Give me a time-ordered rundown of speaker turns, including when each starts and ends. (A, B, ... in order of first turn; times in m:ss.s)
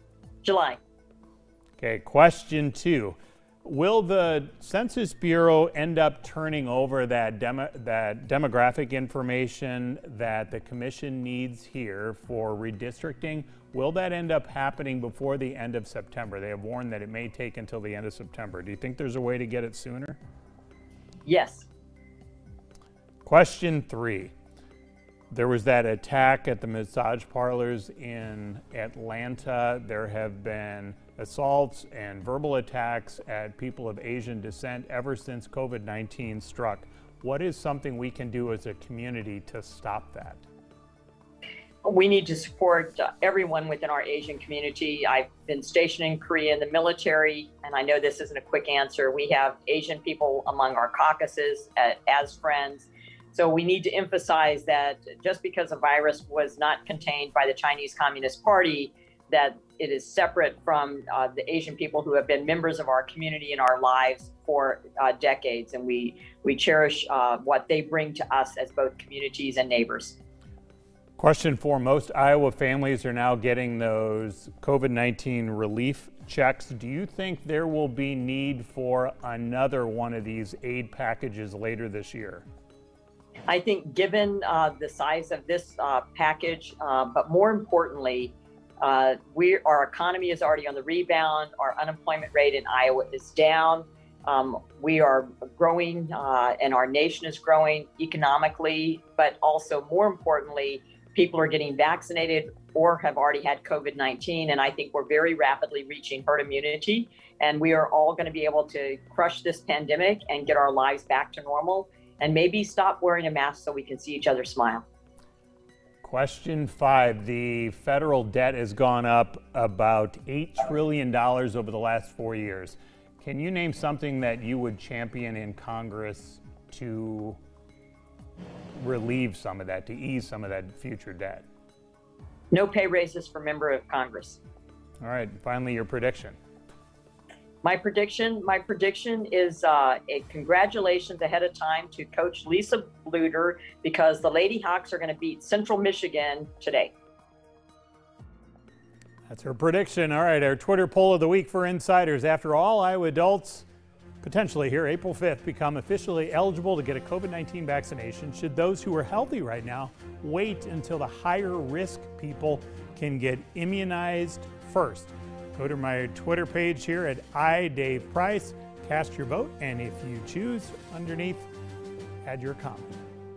0:00.4-0:00.8 A
0:01.8-0:20.2 B
0:21.2-0:21.7 A
0:23.2-0:24.3 B
0:25.3-0:40.4 B
0:41.8-1:10.2 A
1:11.2-1:22.5 B
1:23.5-1:54.8 A
1:56.0-2:07.4 B
2:08.8-2:11.5 B
2:12.5-2:14.4 A
2:15.0-2:16.4 B
2:17.6-2:26.9 A
2:29.3-2:33.7 B
2:34.2-2:51.5 B
2:52.2-2:53.0 B